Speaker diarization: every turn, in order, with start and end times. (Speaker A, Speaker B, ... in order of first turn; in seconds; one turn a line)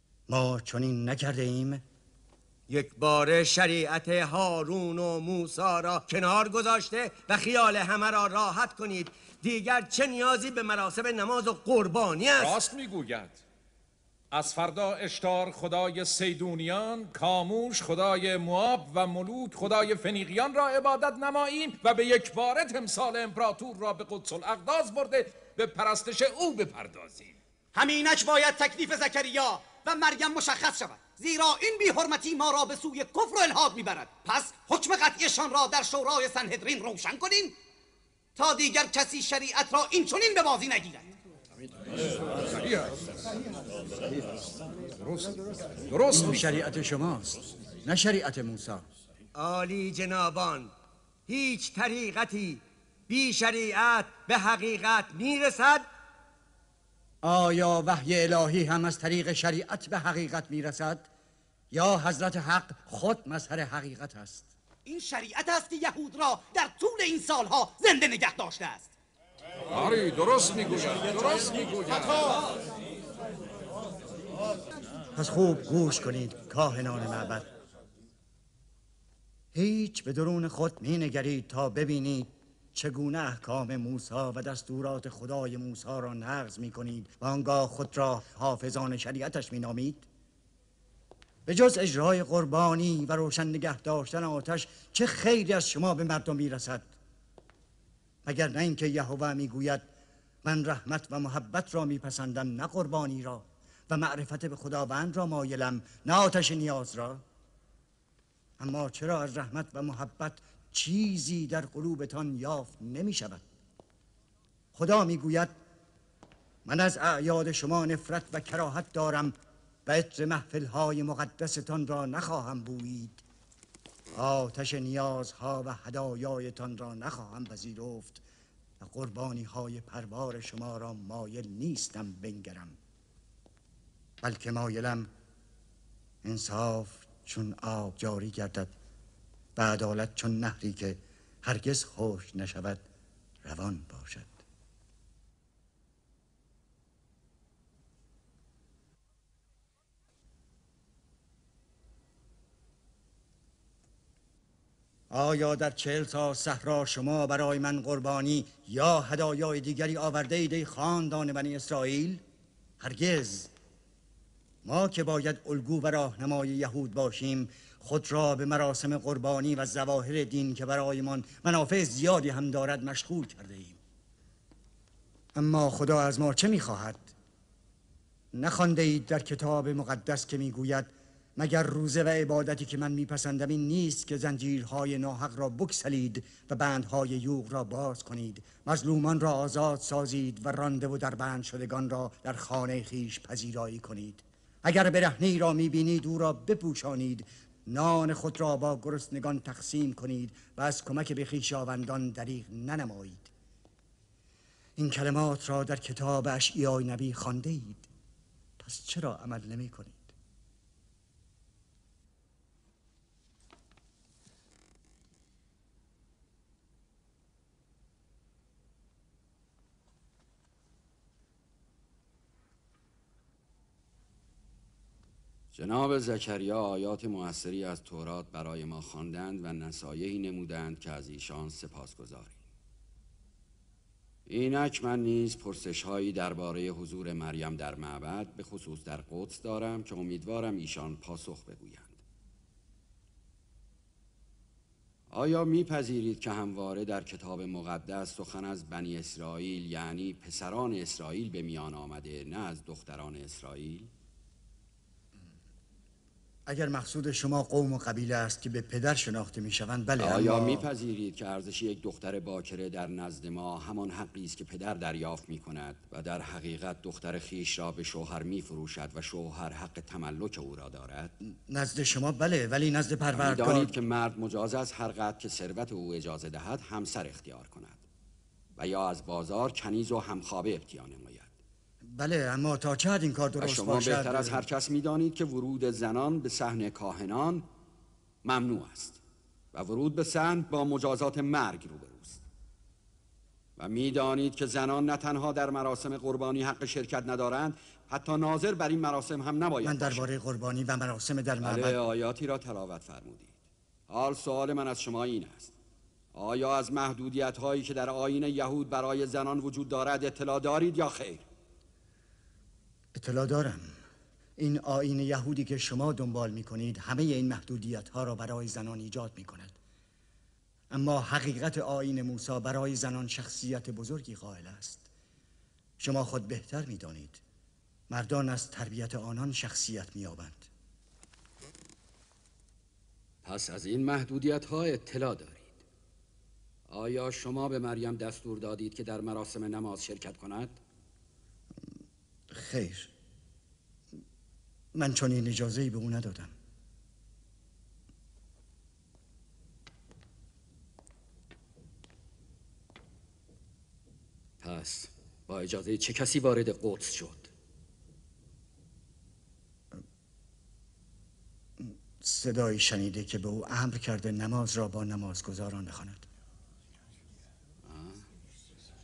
Speaker A: 0.3-1.8
Speaker B: 2.7-12.6
Speaker C: 12.4-13.4
Speaker C: 14.3-27.4
Speaker D: 27.7-37.5
Speaker D: 38.4-41.1
Speaker C: 42.3-43.0
Speaker C: 45.0-46.5
Speaker A: 46.1-48.9
Speaker B: 49.3-50.7
Speaker B: 51.3-55.9
Speaker A: 57.2-61.1
Speaker A: 61.7-64.5
Speaker D: 64.8-68.9
Speaker C: 69.7-72.4
Speaker A: 75.1-77.5
Speaker A: 79.5-90.1
Speaker A: 91.5-96.9
Speaker A: 98.2-99.9
Speaker A: 100.4-107.2
Speaker A: 108.6-113.5
Speaker A: 114.7-115.5
Speaker A: 116.6-123.2
Speaker A: 124.1-128.2
Speaker A: 128.8-132.8
Speaker A: 134.2-135.1
Speaker A: 136.2-138.7
Speaker A: 139.5-142.8
Speaker A: 143.4-144.4
Speaker A: 155.1-162.2
Speaker A: 162.8-163.5
Speaker A: 164.6-173.8
Speaker A: 175.3-177.1
Speaker A: 178.3-203.3
Speaker A: 204.8-207.9
Speaker A: 208.6-210.1
Speaker E: 225.5-232.4
Speaker E: 234.3-242.0
Speaker E: 245.1-253.9
Speaker A: 256.5-260.7
Speaker E: 260.0-271.1
Speaker A: 271.5-273.7
Speaker E: 273.1-277.8
Speaker E: 278.6-281.3
Speaker A: 281.8-284.4
Speaker E: 283.4-287.4
Speaker E: 288.2-289.0
Speaker E: 289.5-292.2
Speaker E: 293.6-300.1
Speaker A: 299.6-301.8
Speaker E: 301.4-303.4
Speaker E: 303.9-305.5
Speaker E: 306.1-311.2
Speaker A: 312.9-313.8
Speaker A: 314.4-319.6
Speaker A: 320.7-324.9
Speaker A: 325.8-327.2
Speaker A: 327.9-330.5
Speaker E: 333.2-335.6
Speaker E: 336.7-340.6
Speaker A: 342.3-342.9
Speaker A: 344.7-346.3
Speaker E: 354.4-357.3
Speaker A: 361.6-366.1
Speaker E: 367.6-368.1